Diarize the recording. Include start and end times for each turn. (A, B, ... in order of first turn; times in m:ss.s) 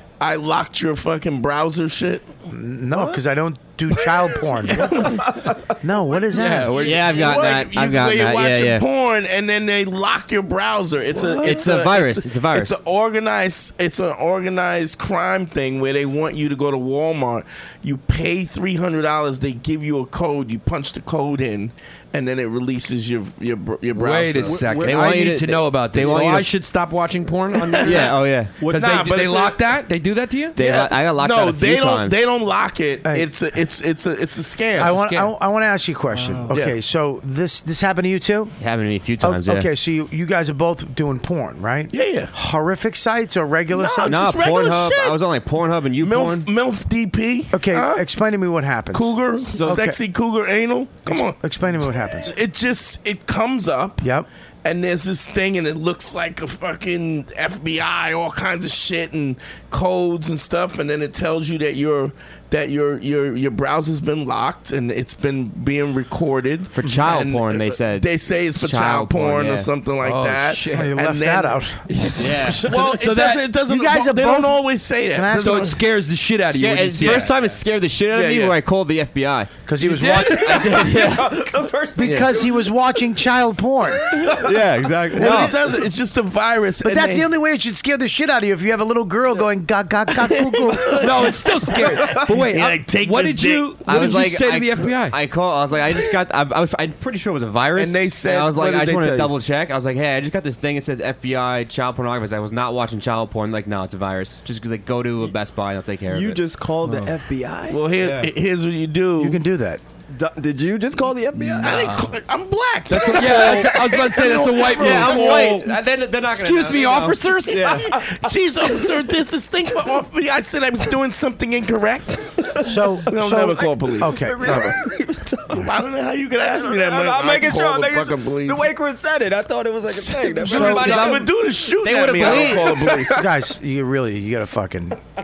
0:00.2-0:02.3 A
0:02.5-0:05.1 B
0:04.7-0:05.2 A
0:05.0-0:05.6 C
0:05.8-0:06.8 B
0:06.3-0:07.3 D
0:06.7-0:24.7 A
0:06.7-0:08.8 E
0:11.4-0:12.8 E
0:24.0-0:28.2 D
0:24.4-0:25.3 C
0:24.8-0:26.5 E
0:27.6-0:28.1 A
0:27.8-0:28.5 E
0:28.6-0:29.1 C
0:28.7-0:30.6 D
0:28.7-0:29.6 A
0:30.6-0:32.2 E
0:30.6-0:35.0 A
0:34.8-0:38.6 B
0:34.9-0:35.3 D
0:38.6-0:39.7 E
0:39.2-0:44.4 B
0:41.9-0:42.3 A
0:43.7-0:45.2 A
0:44.0-0:46.5 E
0:46.0-0:48.0 A
0:47.5-0:50.0 B
0:48.9-0:51.4 A
0:49.5-0:49.8 E
0:51.1-0:52.4 B
0:52.2-0:54.1 A
0:54.0-0:54.3 B
0:54.6-1:11.6 A
1:06.7-1:09.7 E
1:10.0-1:11.0 D
1:10.7-1:11.8 B
1:11.9-1:13.5 D
1:12.2-1:12.6 E
1:12.6-1:15.8 A
1:13.7-1:15.8 B
1:15.3-1:17.6 D
1:16.5-1:19.5 E
1:18.1-1:18.6 A
1:19.7-1:20.7 B
1:19.8-1:21.2 D
1:20.5-1:21.4 E
1:20.5-1:22.3 C
1:22.0-1:24.2 B
1:22.0-1:22.3 A
1:24.1-1:25.2 C
1:24.4-1:25.5 E
1:25.2-1:25.6 B
1:25.2-1:27.3 A
1:26.8-1:31.3 B
1:30.8-1:31.3 A
1:31.0-1:35.2 D
1:31.9-1:32.3 C
1:32.3-1:34.1 A
1:33.9-1:46.4 E
1:37.8-1:39.3 A
1:46.1-1:47.8 C
1:46.8-1:47.1 D
1:47.7-1:49.4 A
1:48.0-1:48.3 E
1:49.2-1:49.8 B
1:50.1-1:51.9 C
1:51.4-1:52.2 D
1:51.6-1:55.6 A
1:52.9-1:55.7 D
1:53.1-1:53.8 C
1:54.8-1:57.8 E
1:54.8-1:55.6 C
1:56.3-1:57.9 D
1:57.5-1:58.2 C
1:57.9-2:04.8 A
2:02.6-2:04.7 B
2:04.0-2:05.6 C
2:05.5-2:08.7 A
2:06.5-2:11.2 C
2:10.0-2:13.3 A
2:10.4-2:11.0 B
2:10.5-2:11.3 D
2:10.5-2:13.0 E
2:12.3-2:13.1 C
2:13.1-2:15.0 B